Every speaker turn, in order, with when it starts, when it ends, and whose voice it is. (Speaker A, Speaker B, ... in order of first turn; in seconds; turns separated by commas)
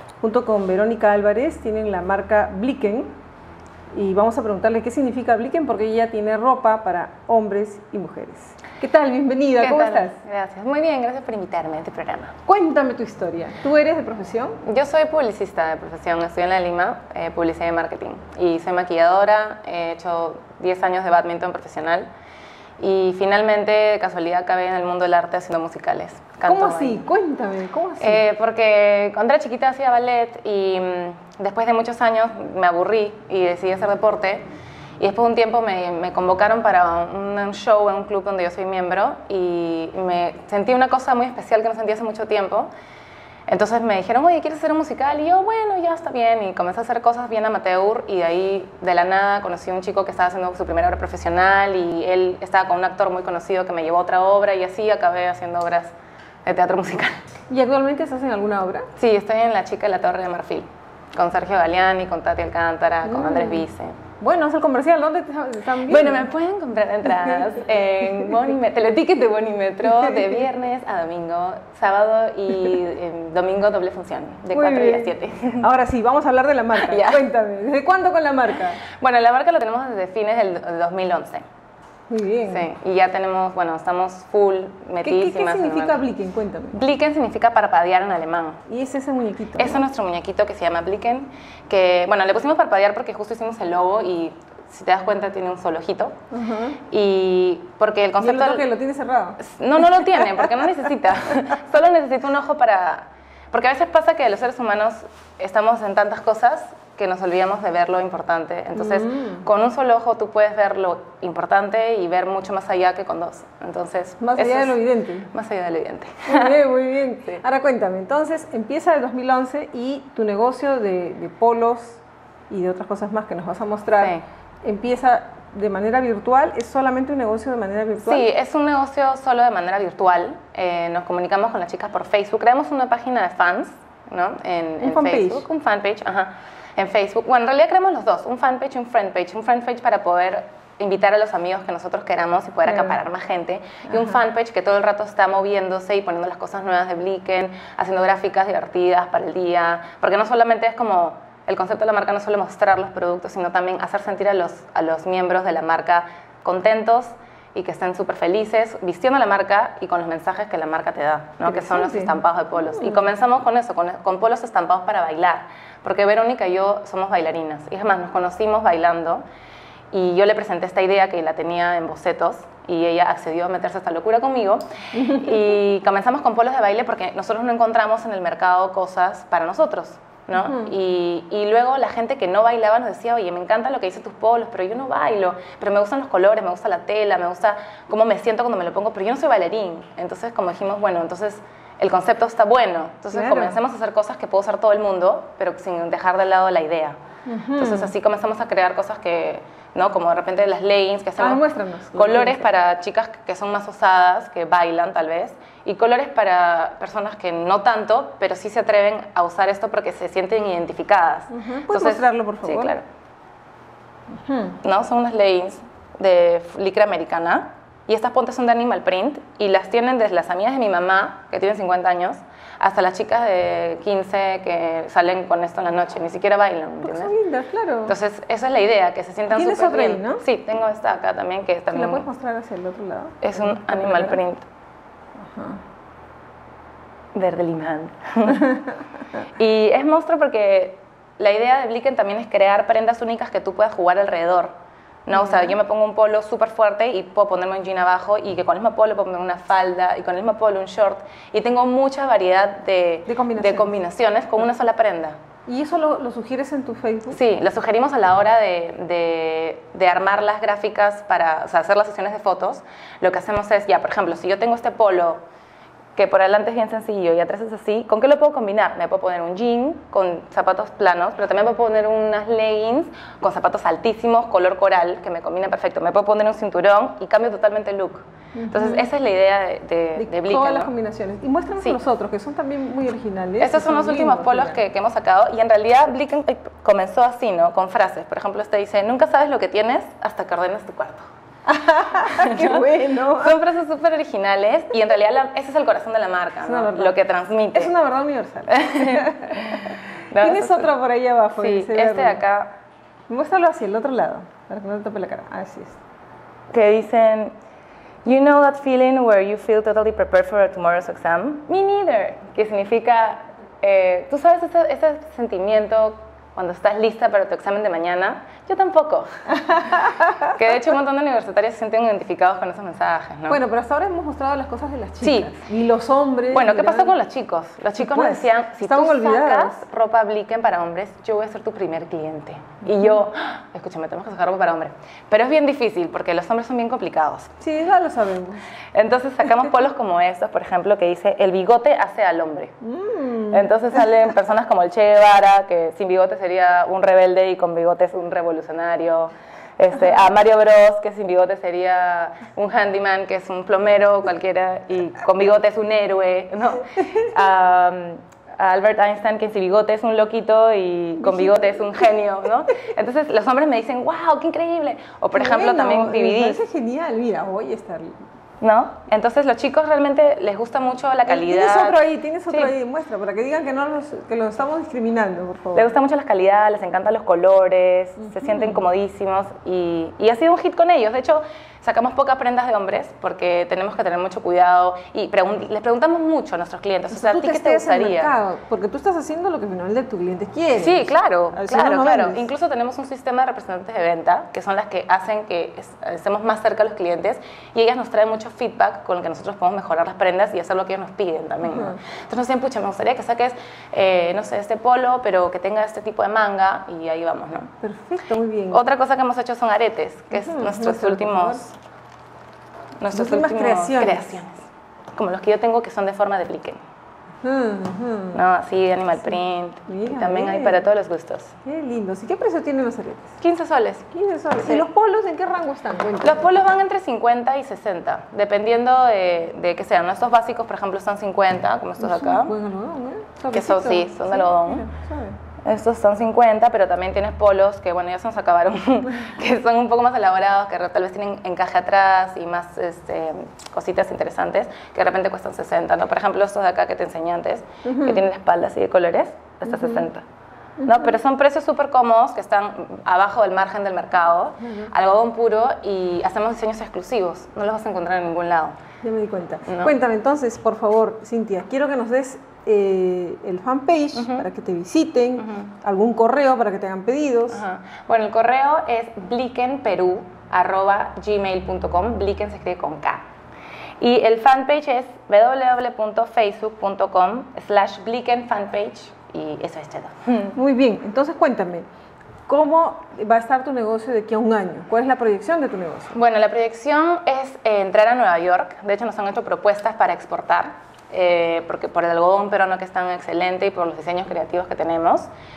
Speaker A: 0.2-3.1, Speaker A: 3.9-10.2, Speaker B: 9.6-12.4, Speaker A: 12.5-14.6, Speaker B: 14.6-22.1, Speaker B: 22.8-27.0, Speaker A: 26.5-28.2, Speaker B: 28.0-34.5, Speaker B: 35.0-42.7, Speaker B: 43.5-55.9, Speaker B: 56.5-57.2, Speaker A: 57.5-58.9, Speaker B: 59.0-64.0, Speaker A: 63.0-63.6, Speaker A: 64.2-66.3, Speaker B: 65.8-75.7, Speaker A: 74.5-78.8, Speaker B: 76.8-77.3, Speaker B: 78.8-81.5, Speaker A: 82.1-82.7, Speaker B: 82.5-86.0, Speaker A: 85.0-86.8, Speaker B: 86.7-88.6, Speaker A: 88.7-89.8, Speaker B: 89.6-96.2, Speaker A: 96.3-96.8, Speaker B: 96.9-98.7, Speaker A: 98.2-99.4, Speaker B: 99.4-114.8, Speaker A: 108.8-109.5, Speaker A: 114.2-115.3, Speaker B: 115.3-116.6, Speaker A: 116.3-128.2, Speaker B: 124.0-124.2, Speaker B: 128.1-169.2, Speaker A: 134.8-135.5, Speaker A: 142.7-143.0, Speaker A: 161.4-162.2, Speaker A: 162.7-163.0, Speaker B: 169.9-197.0, Speaker A: 174.9-175.4, Speaker A: 180.4-180.7, Speaker A: 193.1-193.6, Speaker A: 197.3-197.9, Speaker B: 197.6-212.9, Speaker A: 201.2-202.5, Speaker A: 211.3-212.8, Speaker A: 214.1-214.6, Speaker B: 214.6-227.1, Speaker A: 226.8-227.9, Speaker B: 227.9-232.1, Speaker A: 229.3-230.2, Speaker A: 231.7-234.2, Speaker B: 233.2-234.5, Speaker A: 235.2-235.6, Speaker B: 237.1-238.5, Speaker B: 239.4-244.5, Speaker B: 245.1-255.2, Speaker A: 245.1-245.6, Speaker A: 253.1-253.7, Speaker A: 255.5-257.2, Speaker B: 257.1-265.2, Speaker B: 265.9-280.7, Speaker A: 278.4-278.9, Speaker A: 280.0-284.6, Speaker B: 283.4-291.1, Speaker A: 291.5-293.4, Speaker B: 292.0-297.7, Speaker A: 296.4-296.9, Speaker A: 297.5-299.3, Speaker B: 298.5-300.7, Speaker A: 300.2-302.2, Speaker B: 301.4-302.5, Speaker A: 303.1-305.8, Speaker B: 306.5-307.3, Speaker B: 308.1-319.5, Speaker A: 319.5-320.1, Speaker B: 320.2-323.4, Speaker A: 323.3-326.9, Speaker B: 325.0-325.3, Speaker B: 326.3-337.3, Speaker A: 327.8-329.6, Speaker A: 337.4-338.4, Speaker B: 338.7-342.5, Speaker A: 342.6-343.5, Speaker B: 343.3-366.4, Speaker A: 361.0-361.6, Speaker A: 365.1-367.9, Speaker B: 368.4-372.5, Speaker A: 371.1-375.7, Speaker B: 375.5-388.1, Speaker A: 386.9-392.3, Speaker B: 390.5-407.5, Speaker A: 401.4-401.8, Speaker A: 407.6-408.6, Speaker B: 408.5-411.6, Speaker A: 410.1-411.4, Speaker B: 412.8-414.4, Speaker A: 412.9-414.2, Speaker B: 414.9-416.6, Speaker A: 417.2-418.2, Speaker B: 418.1-421.4, Speaker A: 419.7-420.7, Speaker A: 421.4-423.1, Speaker B: 423.2-423.9, Speaker A: 423.9-426.4, Speaker B: 424.4-424.7, Speaker B: 426.0-432.3, Speaker A: 431.8-435.2, Speaker B: 433.3-434.7, Speaker B: 435.4-450.1, Speaker A: 447.6-448.0, Speaker A: 449.5-449.9, Speaker A: 450.6-451.0, Speaker B: 450.6-458.6, Speaker A: 458.8-467.4, Speaker B: 459.5-459.8, Speaker B: 463.9-464.3, Speaker B: 465.2-465.5, Speaker B: 467.3-473.0, Speaker B: 473.8-480.4, Speaker A: 480.4-481.6, Speaker A: 482.3-485.9, Speaker B: 485.9-495.1